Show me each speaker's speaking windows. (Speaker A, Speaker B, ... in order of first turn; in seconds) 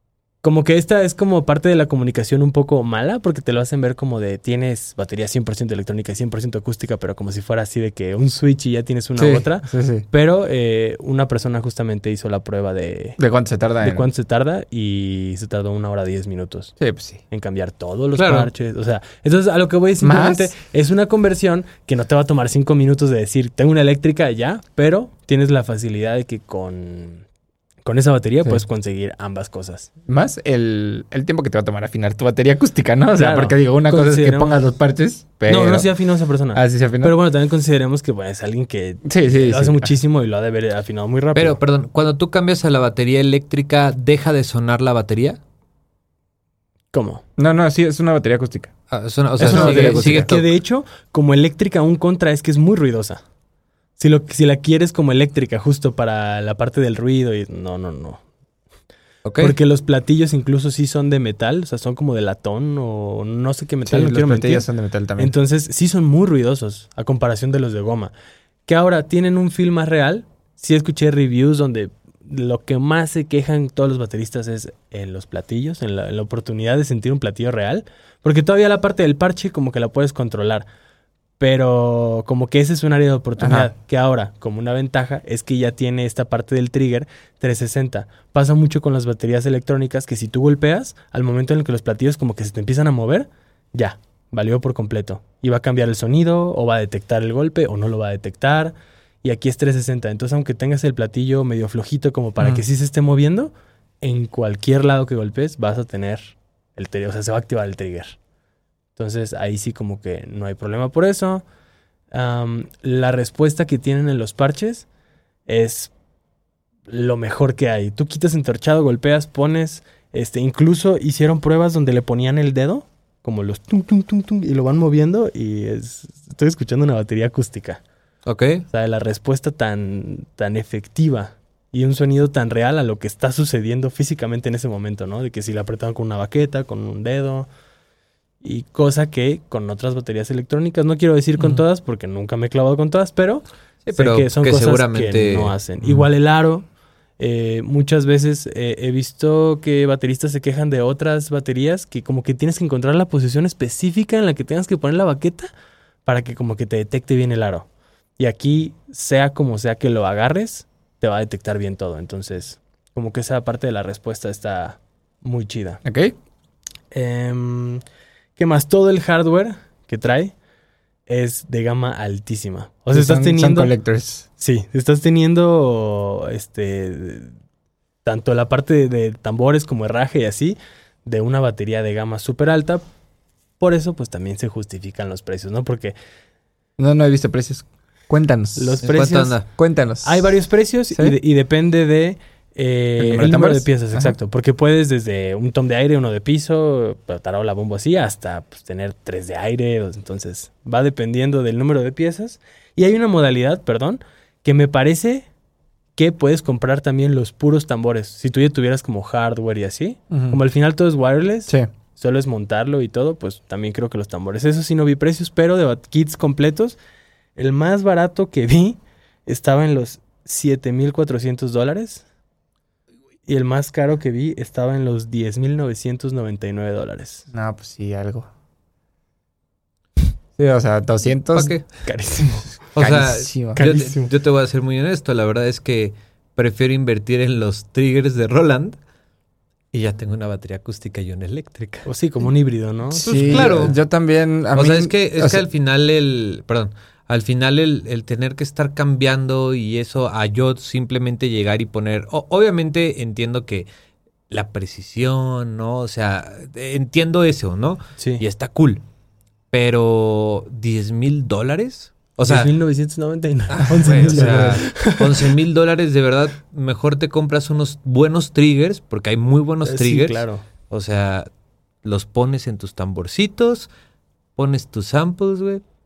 Speaker A: 0.4-13.2, 13.8-16.8, 17.3-27.2, 27.9-29.9, 33.2-34.6, 35.5-41.6, 46.9-47.2, 49.4-53.2, 54.0-58.2, 59.4-64.7, 65.2-68.1, 68.7-80.7, 81.4-103.5, 104.0-108.2, 109.0-111.4, 112.1-114.9, 115.5-115.9, 116.9-127.8, 128.7-137.5, 138.4-146.7, 147.2-155.5, 156.1-157.7, 158.2-165.8, 166.9-167.8, 168.4-170.3, 171.1-173.7, 174.4-177.3, 178.1-182.8, 183.6-185.9, 188.6-189.4, 190.0-205.3, 206.0-216.8, 217.4-222.0, 223.3-227.3, 231.8-232.6, 233.6-234.1, 241.9-243.8, 258.0-258.2, 262.2-265.4, 269.6-270.4
Speaker B: 9.2-10.1, 13.2-14.1, 16.8-17.2, 20.0-20.5, 30.1-35.9, 36.5-37.2, 39.1-39.9, 47.4-48.7, 49.4-50.3, 63.9-65.3, 83.4-83.7, 165.8-166.2, 172.9-174.3, 186.8-188.9, 189.5-190.3, 193.0-194.2, 210.1-210.4, 227.3-228.3, 230.4-231.5, 232.8-233.6, 242.9-245.4
Speaker C: 18.1-18.5, 41.4-45.4, 48.9-50.5, 59.2-59.5, 128.3-128.7, 143.8-145.5, 188.8-189.5, 231.3-231.7, 232.8-238.8, 239.7-241.9, 243.0-243.8, 244.5-253.7, 254.3-258.8, 259.5-262.5, 263.5-271.3, 271.8-273.7, 274.4-275.6